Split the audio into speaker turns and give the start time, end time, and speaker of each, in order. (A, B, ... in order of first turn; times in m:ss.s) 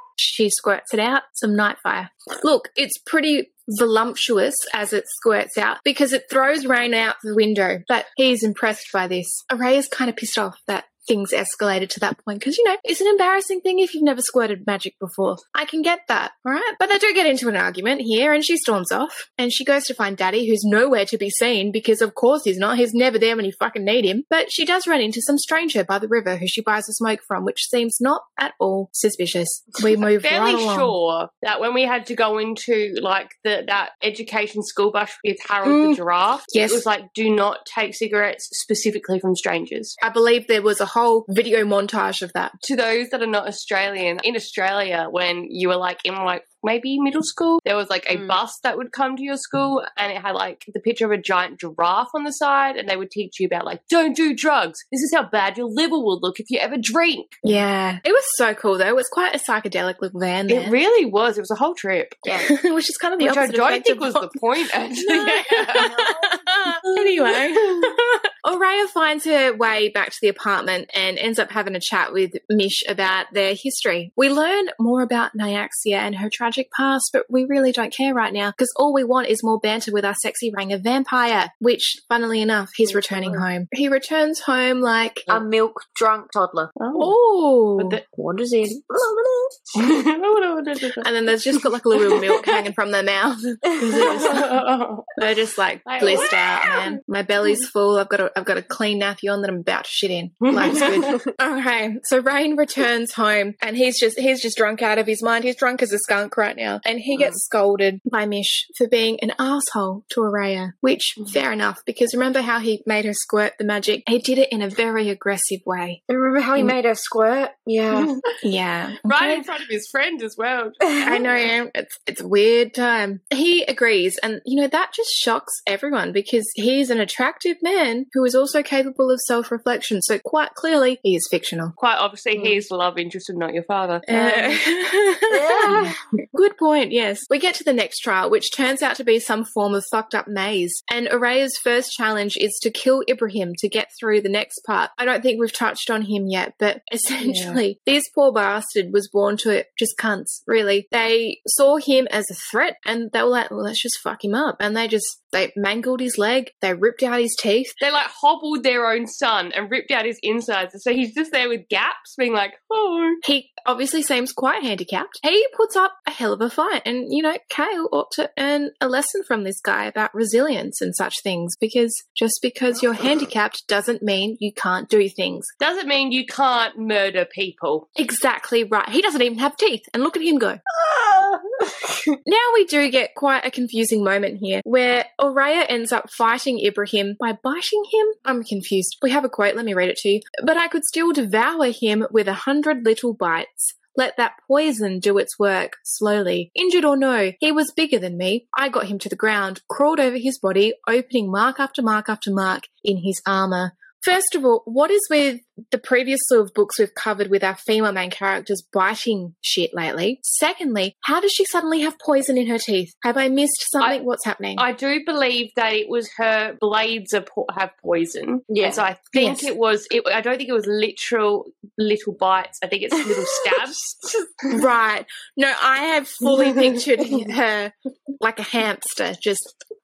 0:00.2-0:30.9 A
0:30.0-0:40.0 B
0:35.6-0:36.8 A
0:40.0-0:42.6 A
0:42.6-0:57.4 B
0:48.1-0:48.4 C
0:57.4-1:00.8 A
1:00.5-1:02.3 B
1:02.4-1:04.4 A
1:03.2-1:06.1 B
1:05.0-1:25.3 A
1:05.8-1:06.3 C
1:06.8-1:07.9 B
1:22.9-1:23.4 B
1:25.3-1:26.7 C
1:26.8-1:27.1 B
1:26.9-1:28.0 A
1:27.8-1:28.0 B
1:28.1-1:29.7 C
1:29.7-1:31.1 B
1:31.0-1:34.6 A
1:32.1-1:32.6 B
1:33.6-1:34.4 C
1:34.0-1:35.2 B
1:35.2-1:56.0 A
1:35.8-1:37.0 B
1:40.4-1:41.2 B
1:47.1-1:47.4 C
1:56.1-1:58.1 C
1:58.4-1:59.4 A
1:59.0-2:01.4 B
2:01.0-2:11.7 A
2:11.8-2:14.7 B
2:14.1-2:37.8 A
2:15.3-2:16.0 C
2:27.2-2:27.6 B
2:37.8-2:43.2 B
2:43.2-2:55.5 A
2:55.6-2:57.8 B
2:58.0-3:00.6 A
3:00.7-3:02.2 C
3:02.2-3:34.6 A
3:34.6-3:43.8 B
3:38.5-3:38.8 C
3:39.1-3:39.5 A
3:43.0-3:44.6 C
3:44.5-3:49.6 A
3:46.4-3:46.8 B